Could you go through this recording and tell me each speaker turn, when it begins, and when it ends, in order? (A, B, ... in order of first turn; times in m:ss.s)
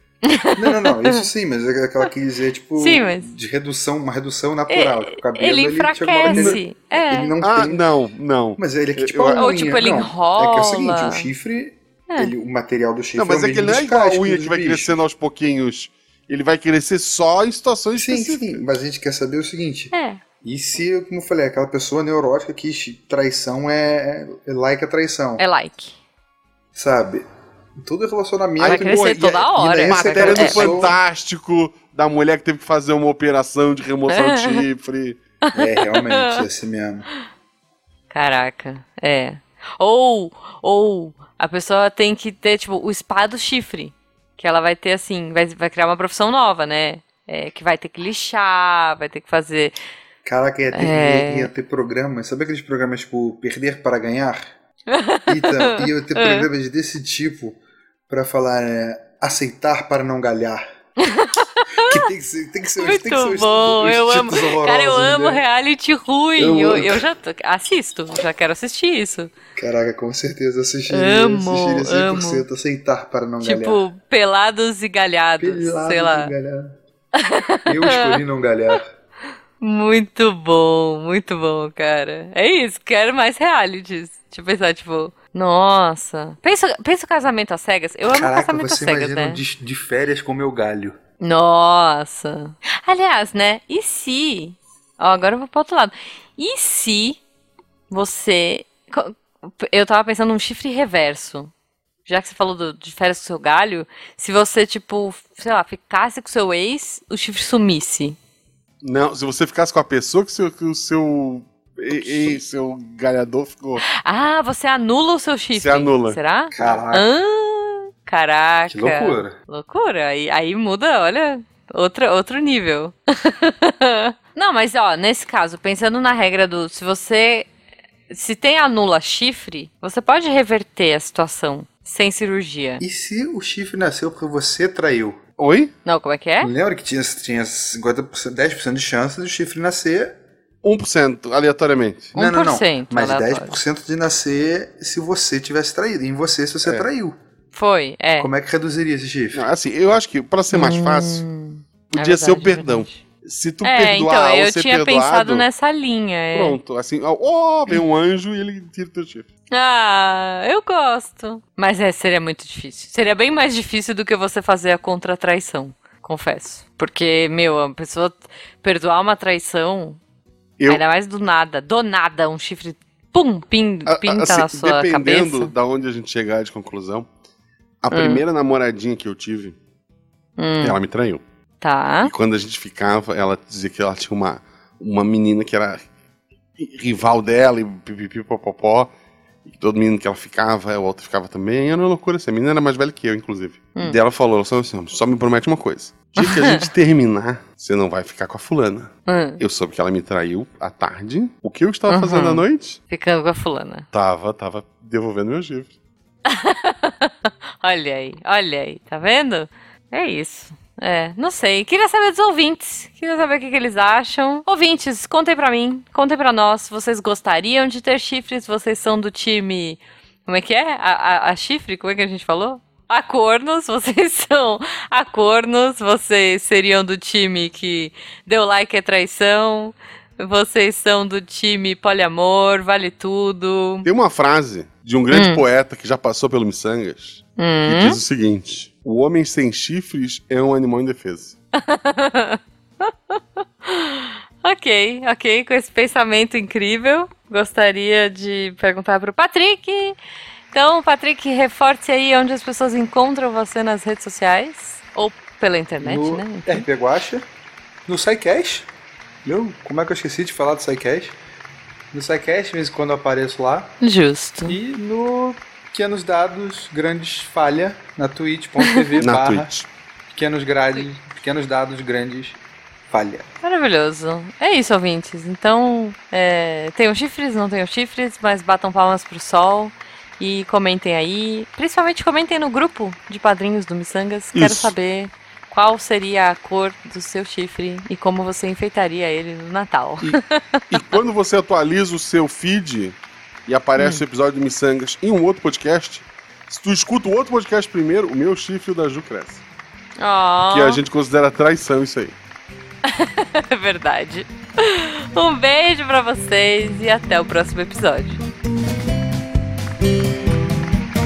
0:00.2-0:01.2 A
0:00.6-0:07.8 B
0:02.8-0:03.3 A
0:04.7-0:07.4 A
0:06.3-0:06.6 C
0:07.4-0:09.5 C
0:08.6-0:15.0 B
0:09.3-0:11.3 A
0:13.2-0:18.6 C
0:18.0-0:25.4 B
0:19.9-0:20.2 A
0:25.4-0:26.0 A
0:26.8-0:27.2 B
0:27.8-0:31.0 B
0:28.6-0:35.2 C
0:28.6-0:30.9 A
0:34.1-0:34.7 A
0:35.4-0:36.4 A
0:35.5-0:37.1 B
0:38.1-0:49.8 A
0:50.2-0:54.5 B
0:50.7-0:51.5 A
0:54.9-0:56.5 A
0:55.3-0:57.6 B
0:58.1-1:00.6 B
1:01.0-1:02.0 A
1:01.8-1:05.4 B
1:02.8-1:09.3 A
1:06.4-1:07.1 B
1:09.6-1:13.8 B
1:10.9-1:12.5 A
1:13.4-1:16.3 A
1:15.4-1:16.8 B
1:17.2-1:18.2 A
1:17.7-1:18.9 B
1:19.6-1:29.4 A
1:28.1-1:31.0 B
1:31.2-1:37.2 A
1:37.9-1:41.5 A
1:42.1-1:48.2 A
1:48.8-1:53.8 C
1:52.0-1:52.4 A
1:53.8-2:07.5 A
1:55.5-1:56.2 C
1:56.5-1:57.1 B
1:58.7-1:59.4 B
2:08.1-2:12.8 A
2:12.8-2:15.2 B
2:15.4-2:15.7 C
2:15.8-2:16.5 A
2:16.4-2:20.2 B
2:20.6-2:22.1 C
2:22.1-2:27.1 B
2:22.2-2:23.6 A
2:27.5-2:28.3 A
2:28.2-2:29.4 B
2:29.3-2:31.2 C
2:30.5-2:33.0 A
2:31.9-2:35.5 C
2:33.6-2:36.6 A
2:36.3-2:39.3 C
2:39.5-2:50.0 A
2:50.7-2:55.5 A
2:53.9-2:57.1 C
2:57.8-2:59.6 C
2:57.9-2:58.2 A
3:00.4-3:00.8 A
3:00.6-3:01.2 C
3:01.6-3:02.1 A
3:02.0-3:05.9 C
3:06.6-3:08.9 C
3:09.4-3:22.8 C
3:16.2-3:16.7 A
3:19.1-3:19.4 A
3:21.9-3:23.9 A
3:23.9-3:25.7 C
3:26.3-3:53.9 A
3:53.8-4:01.4 C
3:55.1-3:55.4 A
3:57.4-3:58.0 A
4:01.6-4:10.0 A
4:10.5-4:16.7 A
4:15.8-4:17.2 B
4:17.9-4:18.7 B
4:19.2-4:21.2 B
4:21.9-4:23.8 B
4:23.8-4:24.6 A
4:24.5-4:29.5 B
4:29.0-4:29.7 C
4:30.1-4:32.4 B
4:32.9-4:33.3 B
4:33.4-4:50.6 A
4:44.4-4:44.7 C
4:50.7-4:59.4 C
4:53.8-4:54.0 A
5:00.0-5:00.8 A
5:00.5-5:02.2 C
5:02.9-5:08.2 A